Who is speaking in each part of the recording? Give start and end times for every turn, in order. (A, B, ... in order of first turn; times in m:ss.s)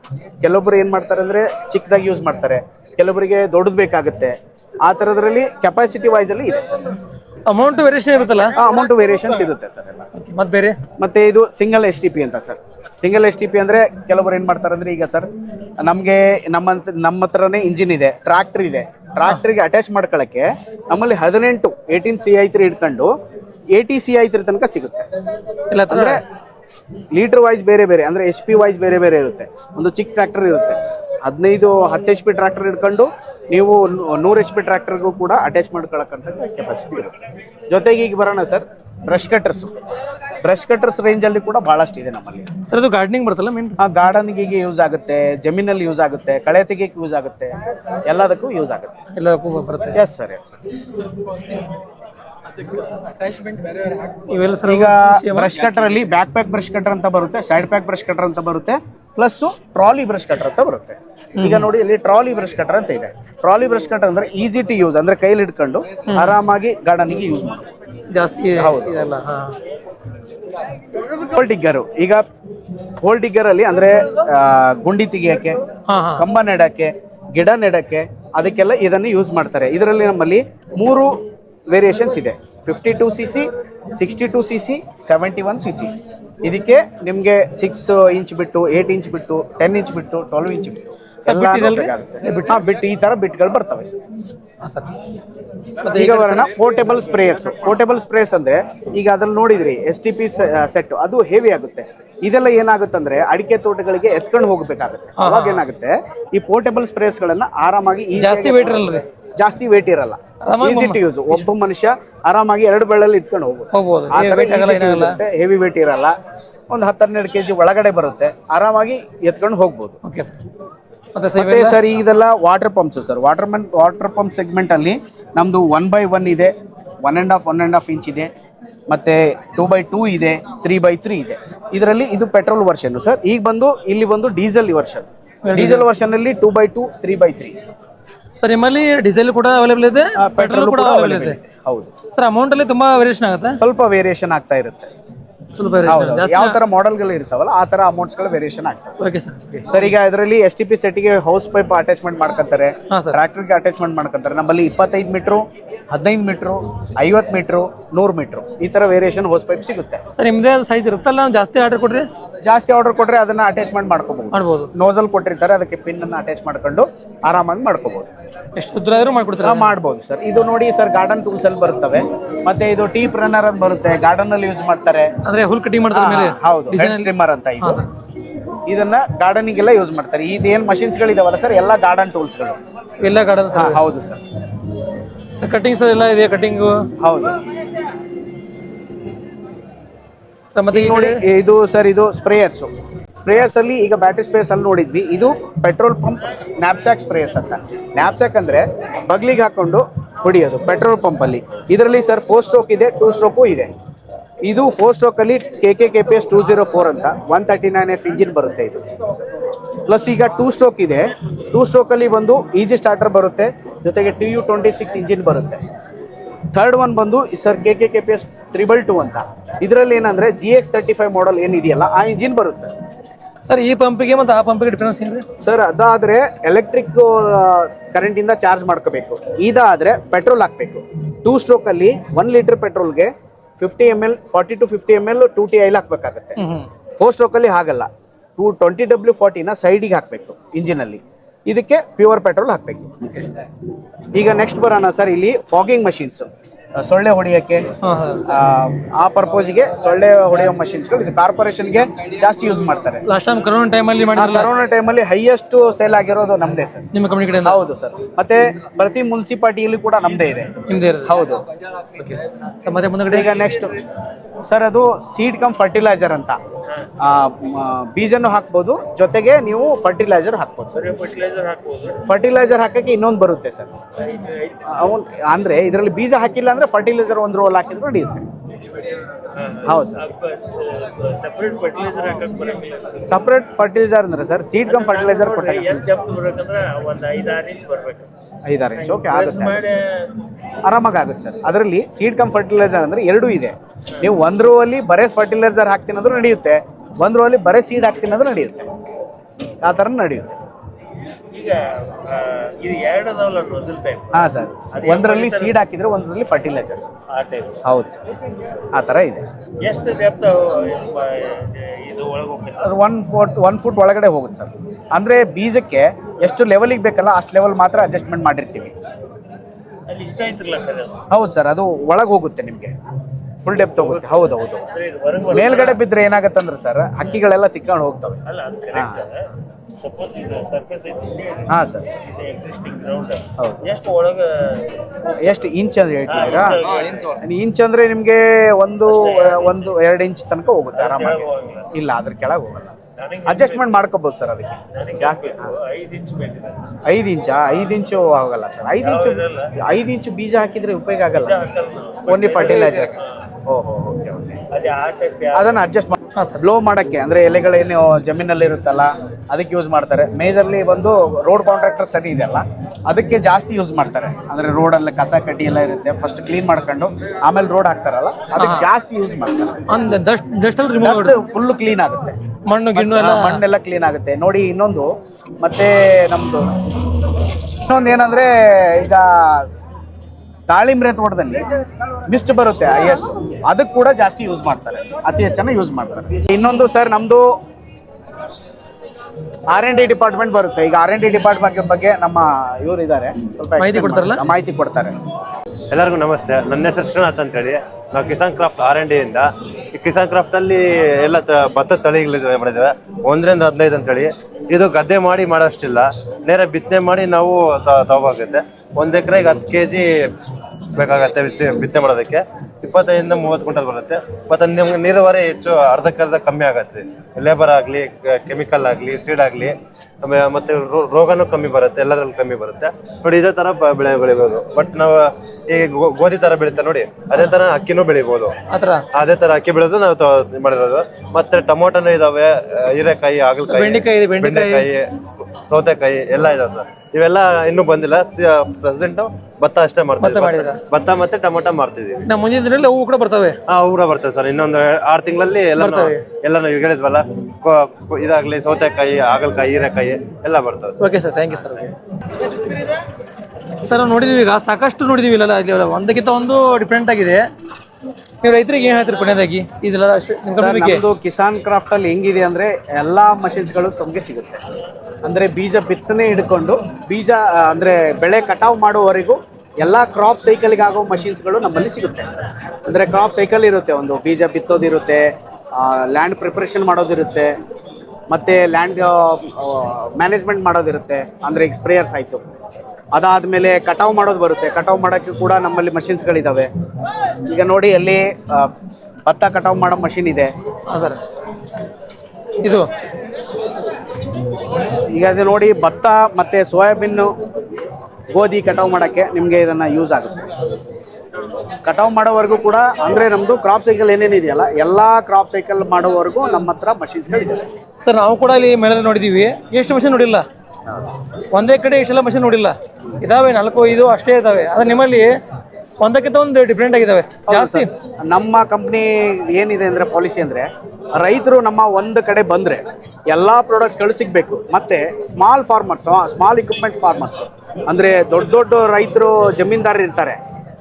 0:00.4-0:06.9 A
0:07.5-0:08.6 B
0:08.6-0:10.1 A
0:10.1-0:10.8 B
0:11.0-0:15.3 A
0:15.8-0:23.1 A
0:23.7-0:25.1 A
0:25.7-0:26.2 B
0:25.9-0:26.2 A
0:27.1-0:37.2 A
0:37.7-0:39.8 A
0:40.4-0:42.5 A
0:42.7-0:43.8 B
0:43.8-0:49.0 A
0:49.1-0:50.0 B
0:49.9-0:50.5 A
0:53.3-0:55.6 B
0:54.6-1:07.7 A
1:01.4-1:01.7 B
1:06.1-1:06.4 B
1:08.1-1:09.6 B
1:08.6-1:09.1 A
1:11.1-1:12.2 A
1:13.0-1:15.6 A
1:15.9-1:16.2 B
1:16.2-1:21.2 A
1:21.7-1:25.9 A
1:26.4-1:34.0 A
1:31.2-1:32.6 B
1:34.6-1:34.9 B
1:35.8-1:36.5 B
1:35.9-1:56.1 A
1:45.2-1:45.6 B
1:48.2-1:49.0 B
1:50.4-1:51.0 B
1:53.7-1:55.2 B
1:56.7-2:00.0 A
2:00.0-2:00.3 B
2:01.2-2:01.8 B
2:01.4-2:06.5 A
2:07.0-2:08.3 A
2:08.9-2:17.6 A
2:15.5-2:15.9 B
2:18.4-2:21.4 B
2:20.2-2:21.9 A
2:22.1-2:23.6 B
2:23.6-2:24.9 A
2:25.6-2:26.6 B
2:25.9-2:29.0 A
2:29.0-2:29.7 B
2:29.7-2:40.0 A
2:32.9-2:33.2 B
2:40.2-2:42.1 B
2:42.4-2:48.1 A
2:44.3-2:44.7 B
2:48.6-2:49.7 B
2:49.4-2:55.1 A
2:55.2-2:57.1 B
2:55.9-2:57.8 A
2:58.7-3:02.6 A
3:03.0-3:03.8 B
3:03.5-3:04.2 A
3:05.4-3:06.8 B
3:07.0-3:07.4 A
3:10.5-3:11.2 B
3:10.7-3:12.7 A
3:13.2-3:23.7 A
3:24.4-3:28.8 A
3:29.8-3:35.6 A
3:36.5-3:42.7 A
3:43.5-3:45.2 B
3:45.4-3:56.4 A
3:56.4-3:56.7 B
3:57.0-4:03.3 A
4:04.1-4:07.7 A
4:07.8-4:08.2 B
4:08.3-4:13.0 A
4:13.1-4:14.5 B
4:14.2-4:16.9 A
4:16.9-4:17.6 B
4:17.4-4:20.5 A
4:20.7-4:21.2 B
4:21.0-4:21.4 A
4:22.0-4:23.4 B
4:23.1-4:23.8 A
4:24.4-4:26.4 A
4:27.0-4:30.8 A
4:30.7-4:32.0 C
4:32.0-4:33.7 A
4:34.0-4:34.8 C
4:34.7-4:38.3 A
4:38.7-4:43.1 C
4:39.6-4:40.0 A
4:43.1-4:45.9 A
4:44.6-4:48.1 C
4:48.4-4:49.6 A
4:48.8-4:50.2 C
4:50.6-4:58.7 A
4:59.6-5:00.5 A
5:01.3-5:05.6 C
5:04.1-5:06.9 A
5:07.1-5:07.6 C
5:07.6-5:08.1 A
5:08.7-5:09.3 A
5:09.6-5:12.7 C
5:12.6-5:18.8 A
5:19.9-5:21.0 C
5:21.1-5:22.8 A
5:23.4-5:24.7 A
5:23.8-5:25.8 C
5:25.3-5:28.2 A
5:28.3-5:35.5 C
5:28.7-5:29.0 A
5:31.5-5:31.9 A
5:33.4-5:33.6 A
5:35.2-5:36.7 A
5:36.1-5:37.2 C
5:37.2-5:42.8 A
5:38.9-5:39.8 C
5:40.7-5:41.7 C
5:43.0-5:43.7 C
5:43.3-5:45.5 A
5:44.7-5:46.8 C
5:46.9-5:51.5 A
5:48.8-5:49.6 C
5:51.2-5:53.2 C
5:52.1-5:54.4 A
5:54.5-5:55.6 C
5:55.3-6:09.6 A
6:08.4-6:08.7 B
6:09.7-6:11.2 B
6:10.8-6:12.2 A
6:12.5-6:13.4 B
6:12.8-6:14.9 A
6:15.4-6:16.5 A
6:17.5-6:19.5 A
6:20.5-6:21.4 A
6:22.1-6:27.4 A
6:29.5-6:35.0 A
6:33.6-6:34.2 B
6:35.7-6:49.9 D
6:50.8-7:08.3 D
7:08.5-7:08.9 B
7:08.9-7:22.1 D
7:13.5-7:14.7 B
7:20.0-7:20.6 B
7:22.1-7:23.4 B
7:23.5-7:30.8 D
7:25.6-7:26.0 B
7:30.8-7:32.8 B
7:33.6-7:37.2 B
7:38.2-7:40.8 B
7:40.3-7:44.4 A
7:45.0-7:52.1 A
7:52.6-7:57.3 A
7:58.1-8:02.2 A
8:02.9-8:06.5 A
8:07.2-8:08.5 A
8:09.1-8:10.3 A
8:10.7-8:11.0 B
8:14.9-8:17.1 A
8:18.1-8:20.3 A
8:21.6-8:27.4 A
8:27.8-8:30.2 B
8:31.3-8:35.2 B
8:35.8-8:37.7 B
8:37.3-8:50.2 A